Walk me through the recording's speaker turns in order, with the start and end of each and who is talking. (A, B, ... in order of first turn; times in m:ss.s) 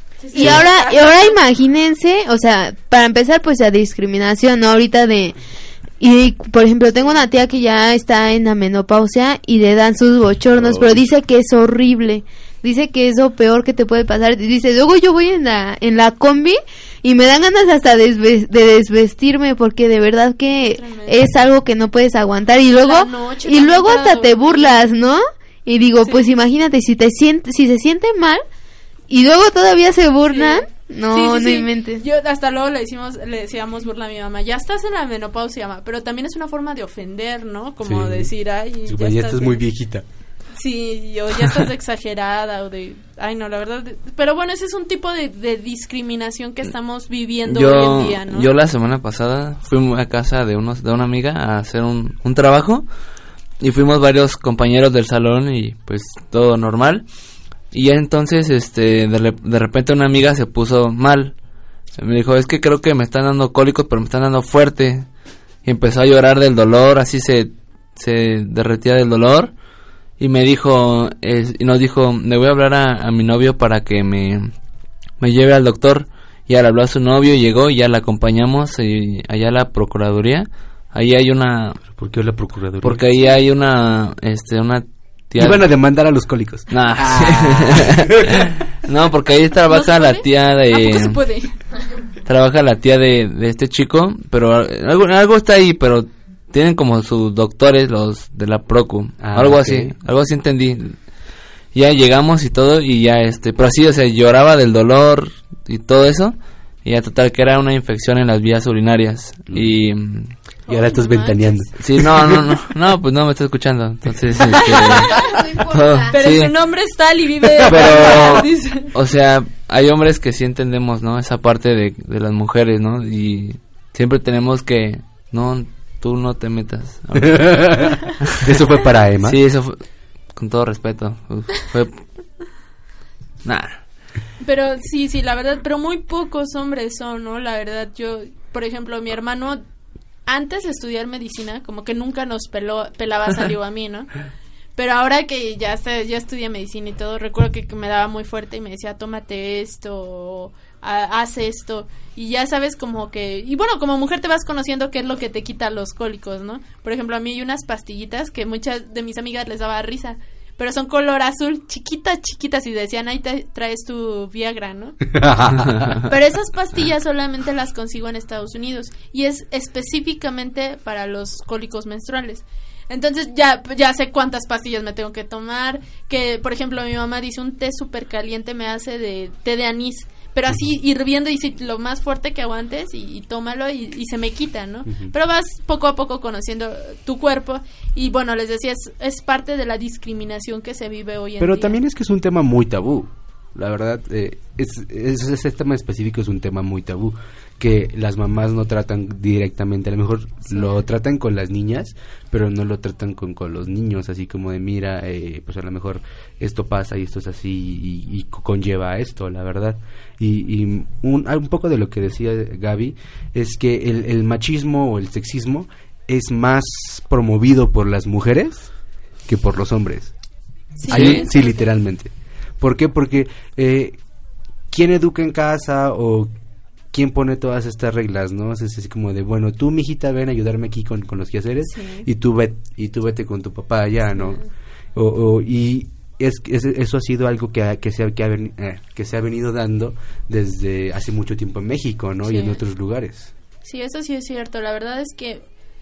0:00.2-0:01.3 A
0:00.3-0:05.4 B
0:06.0-0:28.4 B
0:20.6-0:21.3 A
0:22.7-0:24.8 A
0:26.0-0:26.2 A
0:29.1-0:32.0 B
0:30.2-0:39.6 A
0:37.8-0:38.3 C
0:38.8-0:40.0 C
0:40.6-0:48.5 A
0:47.4-0:52.9 D
0:53.6-0:57.0 D
0:57.7-1:01.4 D
1:02.0-1:05.1 D
1:05.6-1:09.5 D
1:10.2-1:14.5 D
1:15.2-1:21.8 D
1:21.9-1:23.1 C
1:22.8-1:25.6 D
1:25.4-1:28.5 C
1:26.7-1:31.2 D
1:29.7-1:31.5 A
1:32.2-1:41.0 D
1:39.2-1:39.9 C
1:41.7-1:50.3 D
1:50.7-1:51.6 A
1:50.7-1:52.5 C
1:51.8-1:55.1 D
1:54.6-1:55.3 A
1:55.1-1:56.1 B
1:55.7-1:56.5 D
1:56.1-1:58.9 A
1:57.6-1:58.4 C
1:57.7-2:08.1 D
2:07.4-2:09.4 C
2:09.2-2:09.8 D
2:10.3-2:12.3 D
2:13.4-2:13.8 D
2:14.4-2:19.6 A
2:20.2-2:24.1 A
2:24.8-2:45.0 A
2:45.0-2:46.0 C
2:46.1-3:11.8 A
3:04.8-3:05.1 C
3:11.4-3:38.7 C
3:20.5-3:20.8 A
3:39.2-3:40.2 C
3:40.8-3:41.7 A
3:40.9-3:44.0 C
3:40.9-3:41.2 D
3:44.7-3:46.3 C
3:46.9-4:03.3 C
3:51.7-3:52.0 A
3:54.1-3:54.4 A
4:02.3-4:02.6 A
4:03.6-4:05.4 A